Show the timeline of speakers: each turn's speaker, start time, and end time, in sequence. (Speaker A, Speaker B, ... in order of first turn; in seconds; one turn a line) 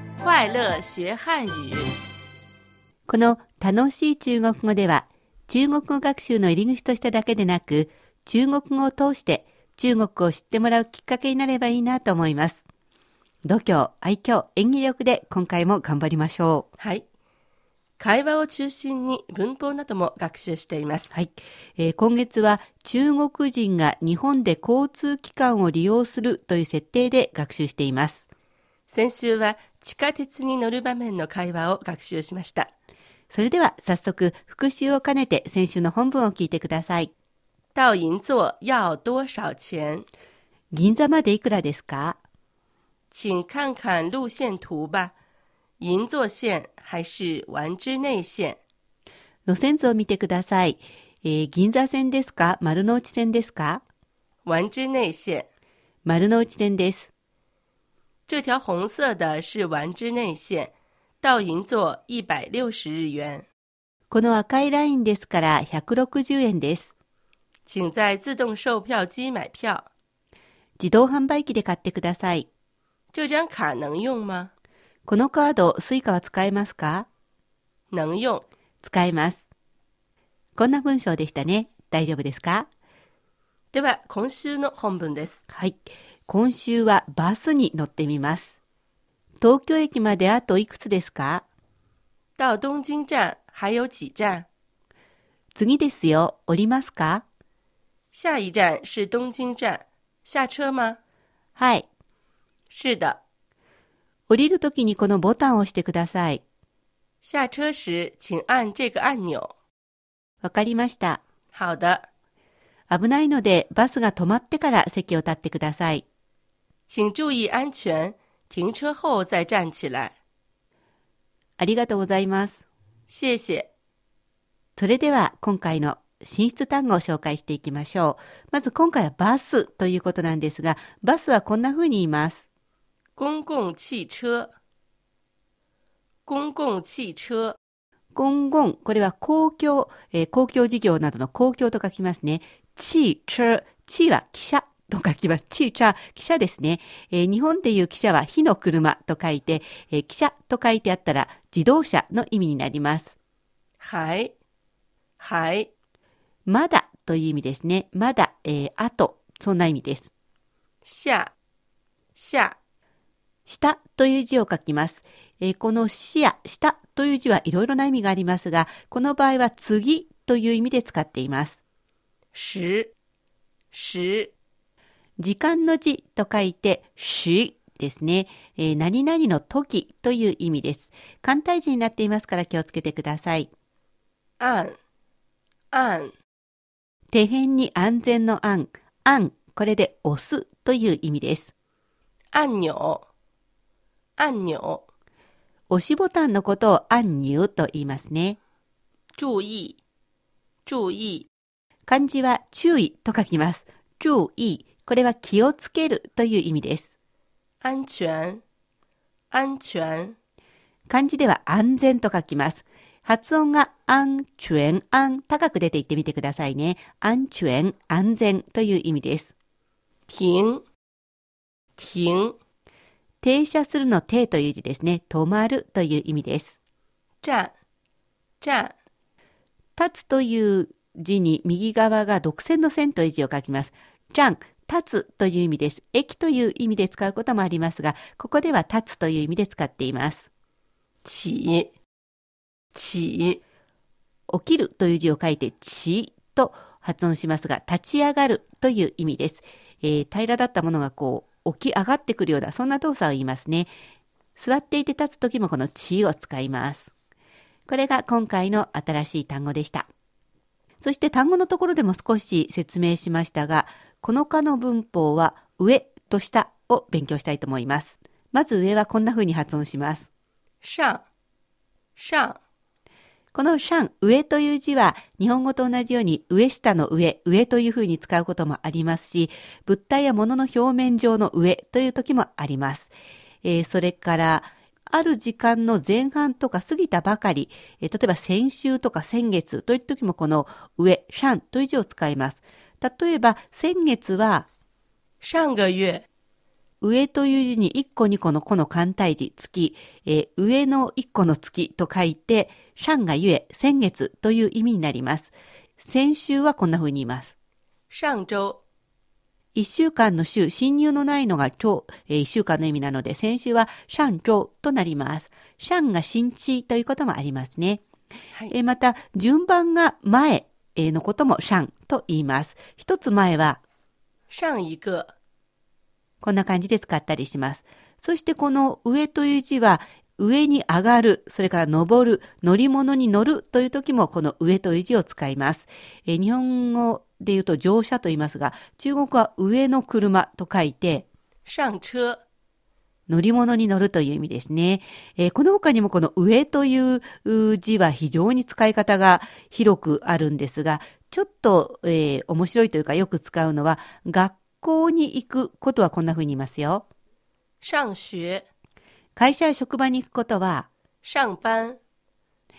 Speaker A: 0.2-1.9
Speaker B: 3.1-12.6
Speaker B: 13.4-16.7
Speaker A: 16.8-17.1
Speaker A: 18.0-21.1
Speaker B: 21.1-28.3
Speaker A: 28.9-32.7
Speaker B: 33.3-37.1
Speaker A: 37.8-40.1
Speaker B: 40.7-42.2
Speaker A: 43.1-45.1
Speaker A: 45.8-48.6
Speaker B: 49.5-53.8
Speaker A: 54.5-55.5
Speaker B: 56.0-57.1
Speaker A: 58.3-63.5
Speaker B: 64.1-66.9
Speaker A: 67.7-69.9
Speaker B: 70.8-72.5
Speaker A: 73.1-74.5
Speaker B: 75.1-77.1
Speaker A: 77.9-78.5
Speaker B: 78.8-79.4
Speaker B: 80.6-82.7
Speaker A: 83.7-85.4
Speaker B: 85.5-88.6
Speaker B: 89.4-91.4
Speaker A: 92.4-94.5
Speaker B: 95.5-97.2
Speaker A: 98.1-101.0
Speaker B: 101.6-101.9
Speaker A: 102.7-103.2
Speaker B: 104.3-106.4
Speaker A: 107.2-109.5
Speaker B: 110.4-111.2
Speaker A: 111.5-112.1
Speaker B: 112.9-116.0
Speaker A: 116.9-120.2
Speaker B: 121.6-122.6
Speaker A: 123.1-123.7
Speaker B: 124.8-132.4
Speaker A: 133.2-134.5
Speaker A: 136.3-137.6
Speaker B: 138.2-153.2
Speaker A: 153.8-154.3
Speaker A: 155.2-155.7
Speaker B: 156.5-160.1
Speaker A: 160.8-161.3
Speaker A: 162.2-162.6
Speaker B: 163.5-171.6
Speaker A: 172.3-172.9
Speaker A: 173.7-174.3
Speaker B: 175.2-183.5
Speaker A: 184.4-184.8
Speaker A: 185.7-186.1
Speaker B: 187.1-191.5
Speaker A: 192.3-193.0
Speaker A: 194.2-194.8
Speaker B: 195.7-198.4
Speaker A: 199.2-199.8
Speaker A: 200.7-201.3
Speaker B: 201.9-206.9
Speaker A: 207.6-208.4
Speaker A: 209.3-210.2
Speaker B: 210.9-219.3
Speaker A: 220.1-220.6
Speaker A: 221.8-222.3
Speaker B: 223.2-226.6
Speaker A: 227.2-227.5
Speaker A: 228.4-228.7
Speaker B: 229.8-240.3
Speaker A: 241.0-241.7
Speaker A: 242.7-243.4
Speaker B: 244.3-253.7
Speaker B: 254.4-256.9
Speaker B: 257.7-259.9
Speaker B: 260.8-270.1
Speaker A: 270.6-271.1
Speaker A: 272.0-272.4
Speaker B: 273.3-294.5
Speaker A: 295.2-296.1
Speaker B: 296.8-307.3
Speaker A: 307.9-308.6
Speaker B: 309.6-317.8
Speaker B: 318.5-323.6
Speaker A: 324.3-325.1
Speaker B: 326.2-341.1
Speaker A: 341.5-342.2
Speaker B: 343.1-356.9
Speaker A: 357.6-358.4
Speaker B: 359.2-360.7
Speaker A: 361.0-361.8